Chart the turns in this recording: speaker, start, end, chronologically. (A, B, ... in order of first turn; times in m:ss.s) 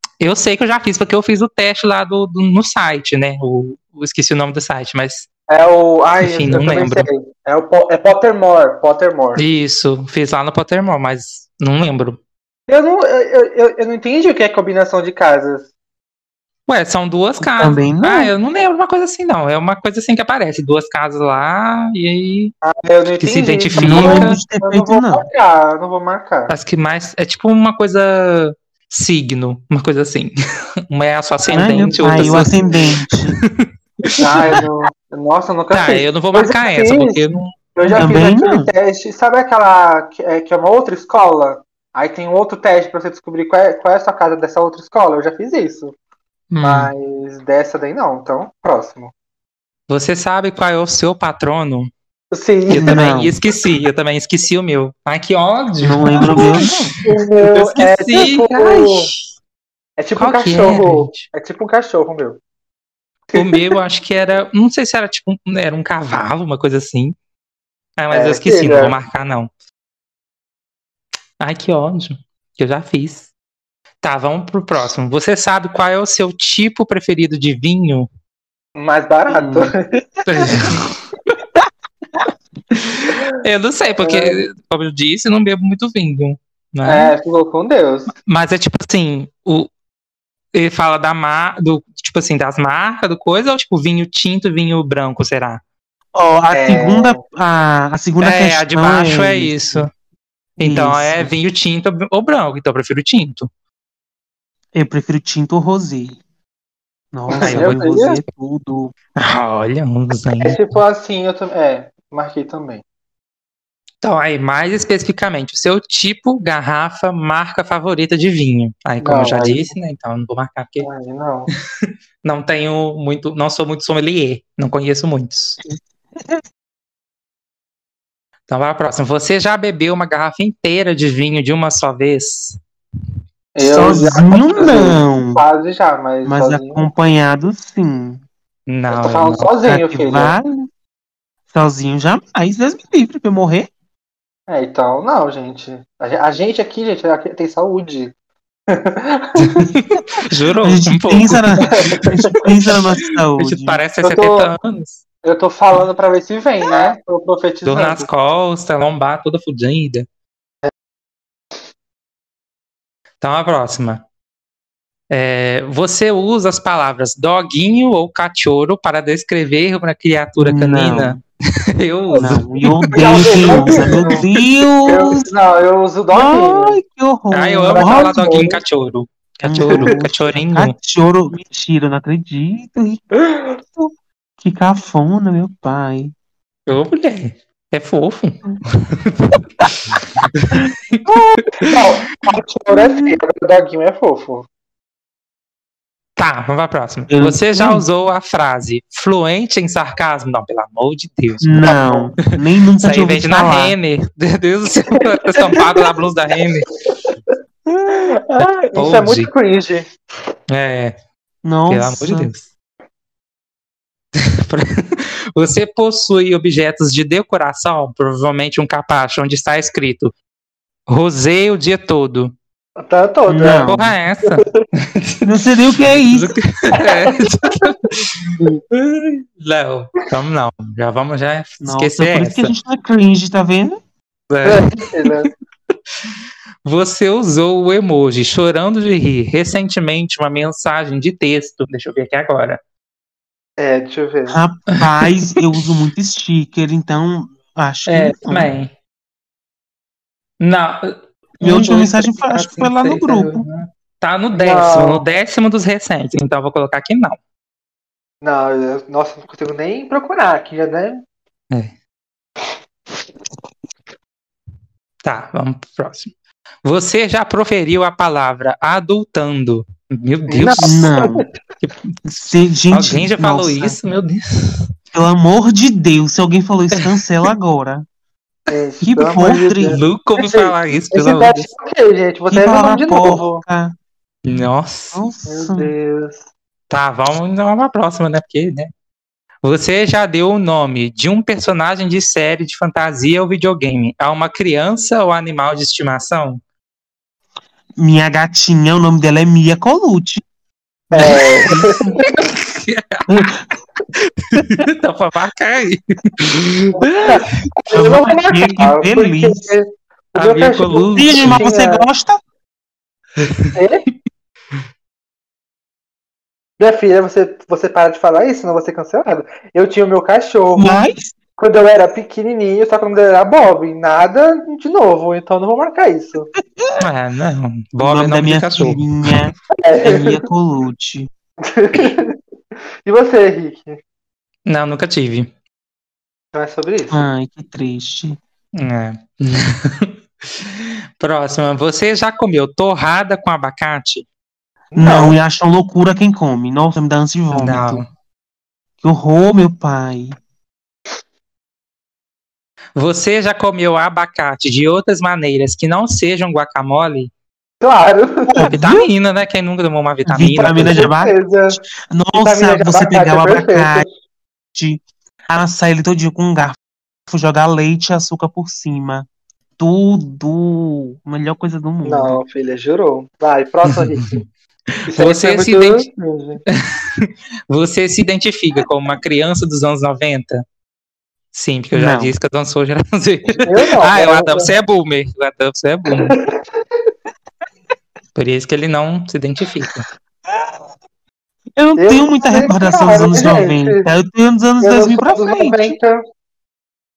0:00.2-0:05.3 A
0:05.5-0:09.4 B
0:06.2-0:07.1 A
0:09.4-0:12.2 A
0:12.7-0:15.7 B
0:16.7-0:22.5 A
0:17.4-0:18.3 C
0:22.6-0:26.5 B
0:23.2-0:24.4 A
0:23.8-0:25.3 C
0:26.5-0:30.3 A
0:30.9-0:32.6 A
0:31.5-0:33.4 C
0:32.0-0:32.7 B
0:33.1-0:34.6 A
0:34.2-0:45.9 B
0:35.7-0:37.5 A
0:37.9-0:38.7 C
0:46.5-0:46.9 A
0:46.6-0:49.1 B
0:49.9-0:51.9 A
0:52.3-0:53.1 B
0:52.7-0:56.9 A
0:52.7-0:53.3 C
0:55.8-0:56.9 C
0:56.3-0:59.1 B
0:57.4-0:59.1 A
1:00.0-1:02.4 B
1:00.2-1:01.3 A
1:03.3-1:03.7 B
1:03.3-1:07.1 A
1:08.0-1:09.5 A
1:08.1-1:09.0 B
1:11.4-1:13.3 A
1:14.0-1:18.1 A
1:18.8-1:20.5 B
1:19.3-1:19.7 C
1:20.3-1:21.0 A
1:22.8-1:27.1 A
1:24.0-1:24.4 B
1:26.8-1:28.1 B
1:28.2-1:29.7 A
1:30.5-1:35.6 A
1:36.1-1:39.9 C
1:36.5-1:37.2 B
1:38.2-1:39.9 A
1:40.6-1:41.3 C
1:40.6-1:43.5 A
1:44.8-1:46.2 C
1:47.1-1:48.9 C
1:47.3-1:48.2 B
1:47.4-1:47.8 A
1:49.2-1:50.6 A
1:50.4-1:52.8 B
1:54.0-2:00.9 A
1:59.0-1:59.7 B
2:00.8-2:01.5 B
2:01.8-2:05.6 A
2:05.7-2:06.4 C
2:08.5-2:12.6 A
2:13.6-2:16.8 B
2:13.6-2:15.4 C
2:16.2-2:18.2 C
2:18.7-2:19.5 A
2:18.9-2:20.4 B
2:19.6-2:20.7 C
2:21.5-2:23.7 C
2:24.5-2:28.1 B
2:28.7-2:29.7 B
2:29.6-2:32.1 A
2:30.6-2:33.8 C
2:31.9-2:32.3 B
2:33.4-2:35.0 A
2:34.0-2:34.5 B
2:35.2-2:38.1 B
2:37.6-2:40.1 A
2:43.2-2:44.0 A
2:45.1-2:51.2 A
2:50.4-2:51.2 C
2:51.8-2:54.2 A
2:52.2-2:55.3 C
2:52.9-2:54.2 B
2:54.9-2:56.8 B
2:56.1-2:58.3 C
2:57.3-3:00.8 A
2:57.7-2:58.6 B
2:59.4-3:03.1 C
2:59.6-2:59.9 B
3:03.2-3:03.6 B
3:03.7-3:06.1 C
3:06.7-3:10.7 A
3:11.1-3:11.4 C
3:11.6-3:14.5 B
3:12.7-3:13.2 C
3:16.2-3:21.7 A
3:17.1-3:17.8 C
3:21.4-3:23.8 C
3:21.6-3:22.1 B
3:22.8-3:26.8 A
3:24.9-3:25.9 B
3:27.9-3:29.9 B
3:28.7-3:29.3 A
3:30.5-3:30.9 A
3:31.4-3:32.3 C
3:31.7-3:32.4 A
3:34.1-3:40.1 A
3:40.9-3:42.3 A
3:42.8-3:43.7 B
3:43.3-3:43.9 C
3:43.6-3:45.3 A
3:44.3-3:44.6 B
3:45.2-3:46.3 C
3:45.9-3:52.5 A
3:46.8-3:47.9 B
3:51.6-3:53.8 C
3:54.3-3:54.9 A
3:54.4-3:55.3 B
3:56.6-4:02.6 A
4:03.6-4:04.4 B
4:04.3-4:08.5 C
4:04.8-4:05.1 A
4:07.9-4:08.7 A
4:10.4-4:17.2 A
4:11.4-4:13.4 C
4:14.4-4:15.0 B
4:18.2-4:21.0 B
4:25.0-4:26.1 A
4:26.6-4:30.9 A
4:30.3-4:31.3 B
4:30.6-4:31.2 C
4:32.1-4:33.8 C
4:32.7-4:34.7 A
4:34.9-4:37.8 C
4:38.5-4:43.4 B
4:38.8-4:39.8 C
4:39.7-4:41.5 A
4:42.3-4:43.8 C
4:44.2-4:45.0 A
4:44.9-4:45.7 C
4:45.3-4:46.2 B
4:46.7-4:48.7 A
4:49.4-4:56.4 A
4:57.8-5:00.2 C
5:00.9-5:02.1 B
5:01.0-5:03.3 A
5:01.0-5:01.8 C
5:03.1-5:03.4 C
5:03.9-5:07.3 A
5:06.8-5:11.9 B
5:07.7-5:09.5 C
5:10.1-5:11.4 A
5:10.9-5:12.2 C
5:13.2-5:13.5 A
5:13.6-5:13.8 B
5:16.6-5:20.8 B
5:20.6-5:21.1 C
5:21.4-5:26.3 B
5:26.8-5:28.8 A
5:27.8-5:31.1 C
5:29.6-5:30.3 B
5:31.4-5:32.2 B
5:32.8-5:33.8 B
5:34.5-5:35.3 A
5:36.3-5:37.0 B
5:36.9-5:38.2 C
5:38.6-5:44.0 A
5:44.7-5:45.1 B
5:44.8-5:47.8 C
5:47.3-5:47.9 A
5:48.8-5:50.2 C
5:52.8-5:57.1 A
5:57.6-5:58.4 B
5:58.3-5:58.9 C
5:58.4-6:00.9 A
6:00.1-6:01.2 C
6:00.6-6:01.6 B
6:01.9-6:03.9 C
6:02.1-6:03.9 B
6:04.6-6:06.6 C
6:07.1-6:09.1 C
6:09.6-6:12.2 C
6:11.8-6:14.2 B
6:13.7-6:14.2 A
6:14.9-6:16.4 B
6:14.9-6:15.9 A
6:16.8-6:20.4 A
6:21.3-6:26.2 A
6:21.7-6:22.1 C
6:23.4-6:24.5 B
6:26.0-6:26.6 B
6:28.1-6:29.9 A
6:30.3-6:30.6 C
6:31.6-6:35.8 C
6:31.8-6:33.9 B
6:34.6-6:36.0 B